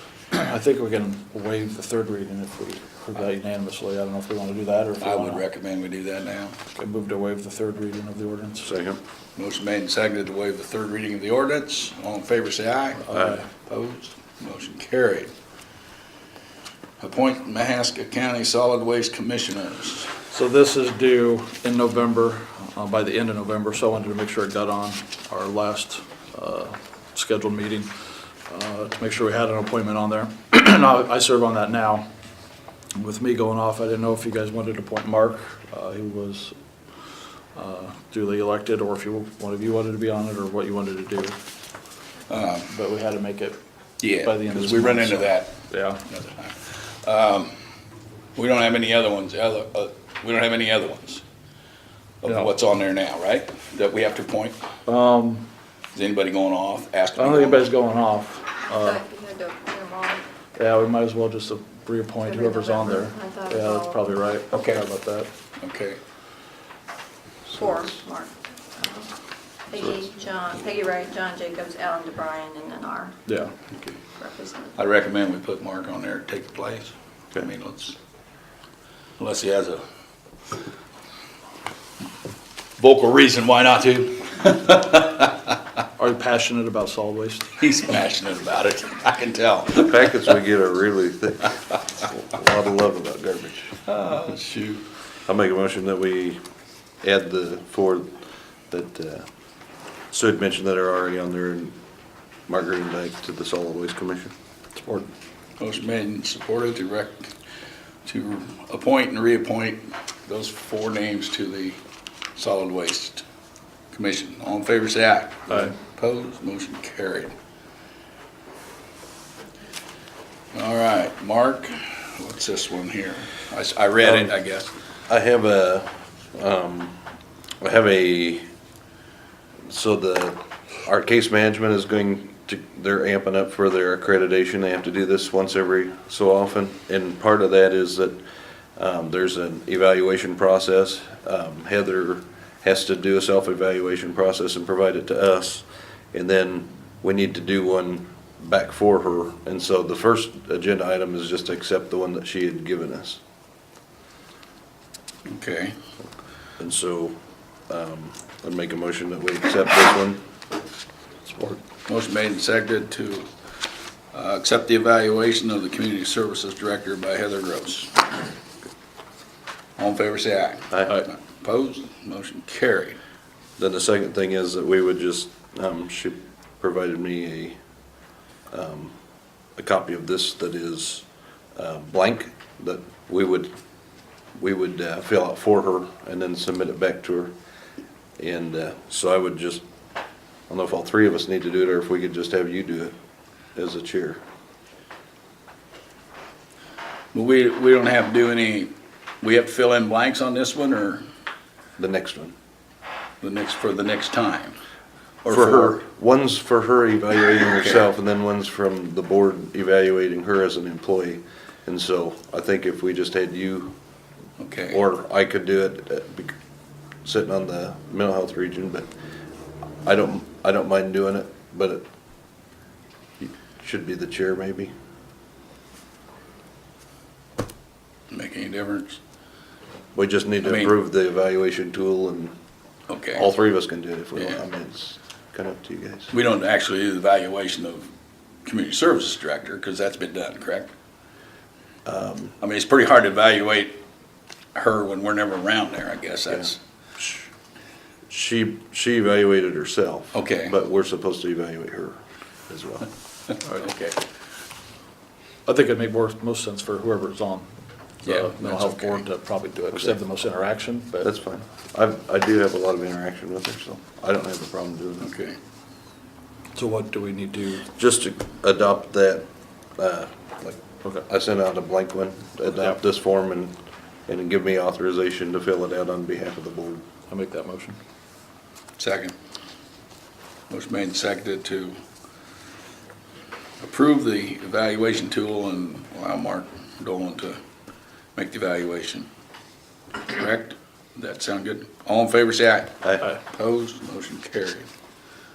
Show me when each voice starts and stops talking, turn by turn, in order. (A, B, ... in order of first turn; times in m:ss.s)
0:00.3-0:05.4 A
0:05.0-0:06.6 B
0:06.7-0:08.7 A
0:08.6-0:09.0 C
0:09.4-0:15.3 B
0:13.1-0:13.4 A
0:13.1-0:13.4 C
0:17.0-0:20.2 B
0:20.3-0:27.9 A
0:28.5-0:32.1 A
0:32.9-0:36.5 A
0:37.5-0:41.4 A
0:42.3-0:42.7 B
0:42.7-0:43.6 A
0:44.0-0:47.5 B
0:44.2-0:46.0 A
0:48.3-0:51.2 B
0:52.2-0:54.6 B
0:54.9-0:55.4 A
0:55.9-0:57.7 B
0:57.2-0:59.0 A
0:58.7-1:00.2 D
1:00.6-1:05.3 A
1:02.3-1:04.0 D
1:04.5-1:04.8 B
1:05.6-1:06.0 B
1:07.5-1:09.1 D
1:09.7-1:13.1 D
1:13.3-1:13.5 A
1:14.2-1:14.8 D
1:14.8-1:18.0 B
1:19.2-1:19.8 B
1:22.8-1:25.4 B
1:26.0-1:27.5 A
1:27.6-1:30.0 B
1:29.8-1:33.8 C
1:33.8-1:34.8 B
1:35.3-1:36.4 C
1:37.0-1:38.1 C
1:38.7-1:39.2 C
1:40.1-1:41.8 C
1:42.5-1:44.3 C
1:44.8-1:45.1 A
1:45.6-1:47.3 B
1:48.0-1:51.8 B
1:52.4-1:53.2 B
1:53.9-1:57.3 B
2:00.5-2:04.7 B
2:05.1-2:07.0 C
2:07.6-2:08.4 C
2:09.7-2:18.2 C
2:18.8-2:33.2 C
2:35.3-2:35.8 B
2:36.6-2:37.2 C
2:37.7-2:40.2 C
2:41.2-2:41.6 A
2:41.8-2:43.3 B
2:44.1-2:48.0 B
2:49.8-2:53.0 B
2:50.7-2:51.0 C
2:53.6-2:57.6 C
2:58.5-2:58.9 C
2:59.6-3:01.0 C
3:01.6-3:03.5 C
3:04.4-3:07.3 C
3:08.2-3:09.6 C
3:10.5-3:12.9 C
3:13.5-3:14.2 C
3:17.1-3:21.0 B
3:21.8-3:22.3 C
3:23.2-3:24.6 B
3:25.2-3:25.8 B
3:25.3-3:33.7 C
3:34.4-3:34.8 B
3:34.7-3:36.3 C
3:37.0-3:38.9 C
3:39.8-3:41.8 C
3:43.2-3:44.7 C
3:48.1-3:49.0 B
3:49.9-3:52.3 C
3:50.4-3:50.7 B
3:52.9-3:53.3 B
3:53.2-3:56.1 C
3:56.1-3:57.9 B
3:58.4-4:00.7 B
4:01.8-4:02.4 C
4:02.4-4:03.8 B
4:04.5-4:06.6 B
4:08.1-4:12.0 C
4:10.1-4:10.5 B
4:12.5-4:12.9 C
4:13.4-4:14.0 B
4:15.4-4:17.5 A
4:18.0-4:21.1 A
4:18.0-4:19.0 B
4:21.0-4:25.1 C
4:25.0-4:25.4 B
4:26.6-4:27.6 A
4:27.7-4:29.2 C
4:29.8-4:33.5 C
4:34.1-4:36.8 C
4:37.1-4:37.8 A
4:38.8-4:39.1 B
4:40.5-4:41.8 B
4:43.6-4:47.4 B
4:48.1-4:49.1 B
4:50.0-4:54.7 B
4:52.8-4:53.1 C